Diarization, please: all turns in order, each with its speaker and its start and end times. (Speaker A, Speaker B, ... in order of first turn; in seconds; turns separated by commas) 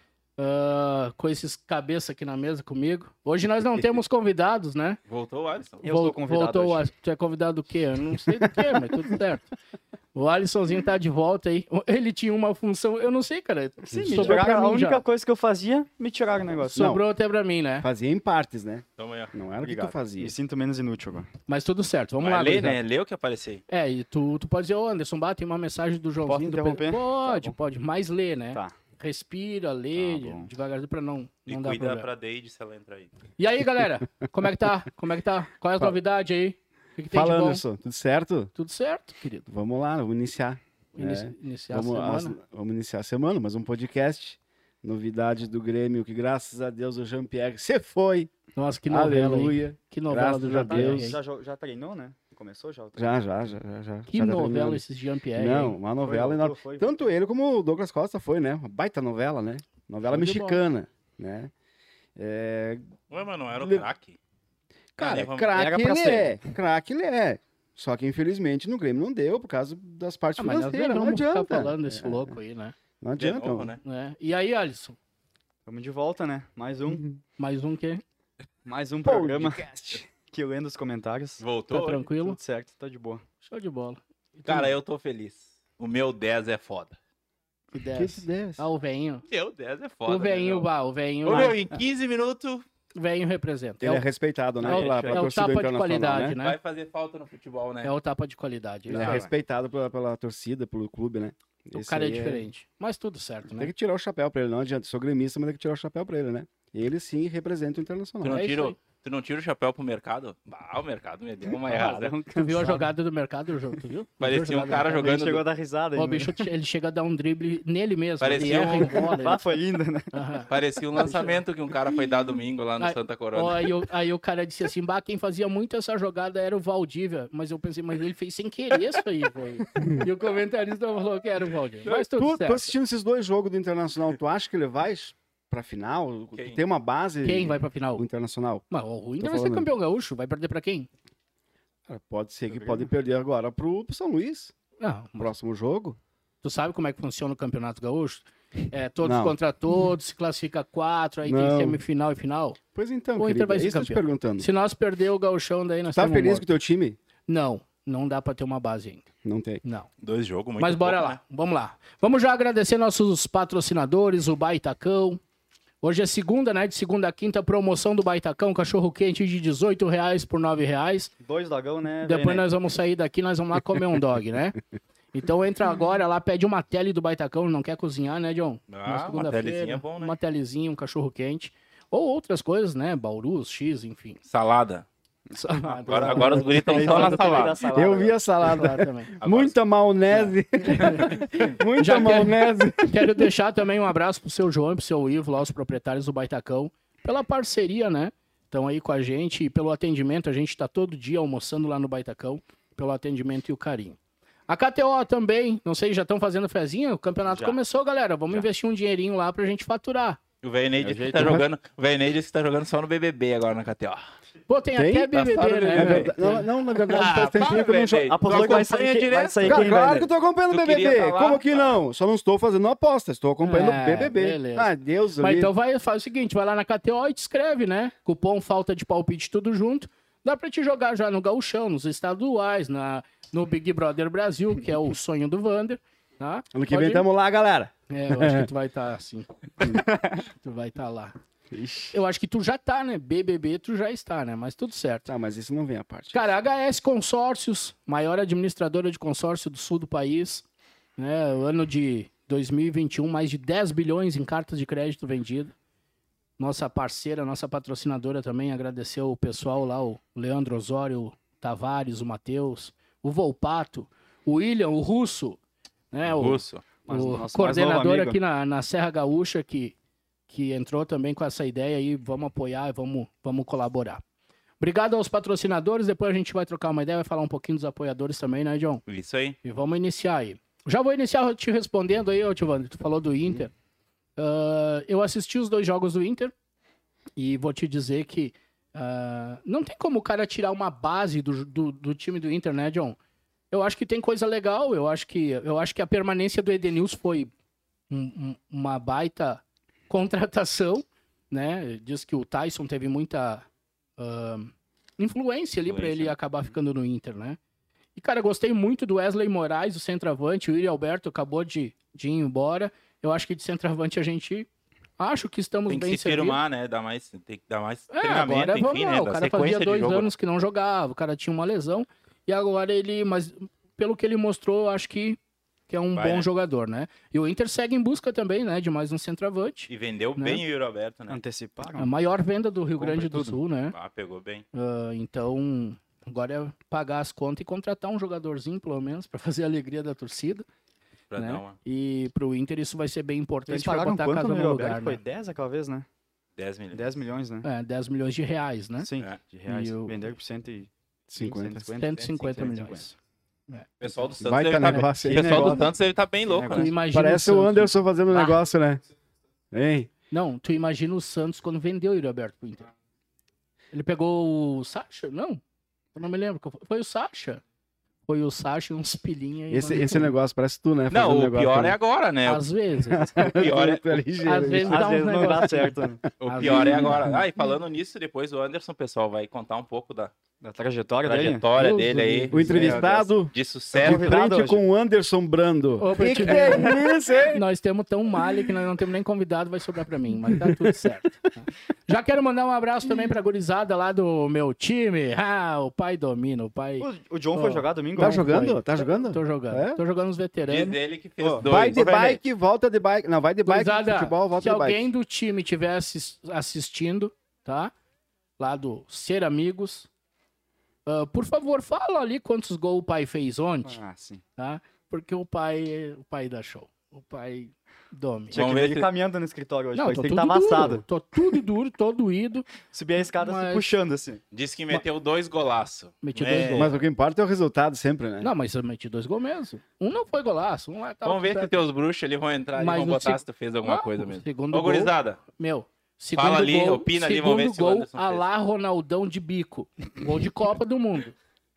Speaker A: 0.4-5.0, Speaker B: 5.1-5.8, Speaker C: 5.8-6.8, Speaker A: 5.8-9.5, Speaker A: 10.1-15.0, Speaker C: 13.8-16.8, Speaker A: 16.6-17.9, Speaker D: 16.7-17.0, Speaker D: 17.8-20.3, Speaker B: 19.0-19.3, Speaker C: 19.6-21.3, Speaker A: 21.5-22.8, Speaker B: 22.2-23.6, Speaker A: 23.7-32.1, Speaker C: 26.3-27.6, Speaker C: 30.0-30.5, Speaker B: 31.5-33.1, Speaker A: 33.4-37.6, Speaker D: 37.1-38.5, Speaker A: 38.5-39.5, Speaker D: 39.5-48.3, Speaker A: 41.0-42.4, Speaker A: 48.5-51.2, Speaker D: 48.9-51.1, Speaker C: 50.7-53.3, Speaker D: 53.0-54.8, Speaker A: 54.1-55.8, Speaker D: 55.4-61.5, Speaker C: 56.0-57.0, Speaker A: 60.1-60.6, Speaker D: 62.2-62.9, Speaker B: 63.1-64.2, Speaker D: 63.6-63.9, Speaker D: 65.0-72.4, Speaker B: 65.0-65.5, Speaker C: 65.5-66.4, Speaker A: 70.4-72.7, Speaker D: 73.0-73.7, Speaker B: 73.2-73.8, Speaker A: 73.8-75.0, Speaker C: 75.7-77.1, Speaker A: 77.4-78.0, Speaker C: 78.7-81.4, Speaker D: 79.0-80.1, Speaker B: 81.4-82.1, Speaker A: 81.7-82.4, Speaker C: 82.2-83.2, Speaker A: 83.4-84.7, Speaker B: 84.5-87.0, Speaker A: 87.7-89.2, Speaker D: 87.9-88.7, Speaker B: 89.3-90.7, Speaker A: 90.1-91.6, Speaker B: 91.3-92.7, Speaker A: 93.0-94.0, Speaker D: 93.8-96.4, Speaker C: 94.6-95.3, Speaker A: 94.7-96.6, Speaker B: 96.4-97.9, Speaker A: 97.8-99.3, Speaker D: 98.9-102.5, Speaker C: 98.9-99.3, Speaker A: 101.8-103.7, Speaker D: 103.6-108.5, Speaker B: 108.2-112.2, Speaker A: 108.3-108.8, Speaker C: 111.5-112.9, Speaker A: 112.3-115.2, Speaker B: 114.2-115.5, Speaker C: 115.0-116.5, Speaker A: 116.0-119.4, Speaker B: 118.2-119.0, Speaker C: 119.0-120.1, Speaker A: 120.1-121.4, Speaker B: 120.5-123.7, Speaker A: 122.8-132.7, Speaker D: 129.8-130.1, Speaker D: 131.9-138.6, Speaker B: 136.3-136.6, Speaker A: 137.2-138.0, Speaker A: 138.7-140.9, Speaker D: 139.2-139.7, Speaker D: 141.9-144.5, Speaker C: 142.5-142.9, Speaker A: 144.8-145.3, Speaker D: 145.2-146.0, Speaker A: 146.4-152.6, Speaker D: 149.0-149.3, Speaker D: 151.2-151.8, Speaker D: 152.8-154.5, Speaker A: 153.2-156.5, Speaker D: 155.9-157.0, Speaker A: 157.3-159.1, Speaker D: 159.2-159.6, Speaker A: 159.6-159.9, Speaker B: 160.0-161.2, Speaker A: 160.6-165.2, Speaker A: 165.8-171.1, Speaker C: 171.2-172.4, Speaker A: 172.0-174.6, Speaker A: 175.1-184.2, Speaker B: 178.7-180.2, Speaker B: 184.3-184.9, Speaker A: 185.3-187.4, Speaker B: 185.8-187.6, Speaker C: 185.9-188.2, Speaker D: 187.4-193.3, Speaker A: 188.4-189.1, Speaker B: 189.2-189.5, Speaker A: 190.1-191.1, Speaker A: 191.8-210.2, Speaker C: 207.3-207.6, Speaker B: 210.4-214.0, Speaker C: 210.8-211.3, Speaker D: 211.2-211.5, Speaker A: 214.5-217.2, Speaker D: 214.8-218.6, Speaker B: 215.1-216.2, Speaker B: 216.9-219.7, Speaker C: 217.5-220.1, Speaker D: 219.4-225.5, Speaker B: 220.5-221.7, Speaker A: 223.4-237.1, Speaker D: 236.5-238.5, Speaker A: 237.9-241.1, Speaker C: 239.7-240.2, Speaker D: 241.5-242.0, Speaker A: 241.9-245.1, Speaker D: 245.1-246.3, Speaker A: 246.1-250.4, Speaker A: 251.0-255.5, Speaker A: 256.4-265.4, Speaker A: 265.9-269.8, Speaker B: 266.1-266.6, Speaker C: 266.8-268.2, Speaker A: 270.3-274.0, Speaker A: 274.6-278.8, Speaker B: 278.9-279.4, Speaker A: 279.4-283.5, Speaker A: 284.2-286.3, Speaker A: 287.2-293.0, Speaker A: 293.5-297.3, Speaker A: 297.9-303.5, Speaker A: 304.0-307.4, Speaker B: 305.7-306.1, Speaker A: 308.0-314.5, Speaker A: 315.0-316.4, Speaker B: 315.7-320.1, Speaker A: 317.9-330.4, Speaker B: 325.9-326.3, Speaker B: 329.7-331.2, Speaker C: 331.1-331.9, Speaker A: 331.8-333.8, Speaker C: 332.8-333.4, Speaker B: 333.7-334.4, Speaker A: 334.5-340.4, Speaker B: 341.1-341.6, Speaker A: 341.1-345.0, Speaker C: 343.5-345.9, Speaker B: 346.4-346.9, Speaker C: 346.7-347.5, Speaker A: 347.4-348.9, Speaker C: 348.8-350.7, Speaker A: 349.5-350.0, Speaker D: 351.1-351.7, Speaker C: 351.2-352.9, Speaker A: 351.8-353.0, Speaker B: 353.8-356.7, Speaker D: 354.2-355.7, Speaker A: 354.6-354.9, Speaker C: 355.1-355.7, Speaker C: 356.3-356.7, Speaker A: 356.5-358.4, Speaker D: 356.9-358.8, Speaker D: 359.5-359.9, Speaker A: 360.1-362.7, Speaker A: 363.7-365.4, Speaker A: 365.9-367.4, Speaker A: 368.1-370.1, Speaker D: 369.5-371.8, Speaker B: 370.9-372.5, Speaker A: 372.2-373.4, Speaker D: 372.9-374.9, Speaker B: 373.2-374.0, Speaker A: 374.2-377.0, Speaker C: 374.7-376.0, Speaker B: 376.2-380.1, Speaker D: 376.4-377.2, Speaker C: 380.4-381.4, Speaker B: 381.0-384.2, Speaker A: 381.6-382.8, Speaker D: 382.3-387.4, Speaker C: 382.6-383.0, Speaker C: 383.8-384.6, Speaker A: 385.8-400.8, Speaker D: 390.3-390.9, Speaker C: 396.8-398.4, Speaker D: 398.0-399.8, Speaker B: 400.5-402.1, Speaker C: 401.2-402.1, Speaker D: 401.4-404.9, Speaker A: 403.4-407.7, Speaker A: 408.4-409.9, Speaker A: 410.9-413.8, Speaker C: 413.6-414.2, Speaker A: 414.4-418.4, Speaker C: 418.3-420.8, Speaker B: 418.3-418.9, Speaker A: 419.8-422.5, Speaker C: 422.7-424.2, Speaker A: 423.2-423.7, Speaker B: 424.3-426.8, Speaker A: 426.0-426.7, Speaker D: 426.5-428.3, Speaker A: 428.2-431.6, Speaker B: 431.1-435.2, Speaker A: 432.6-441.1, Speaker B: 436.2-438.2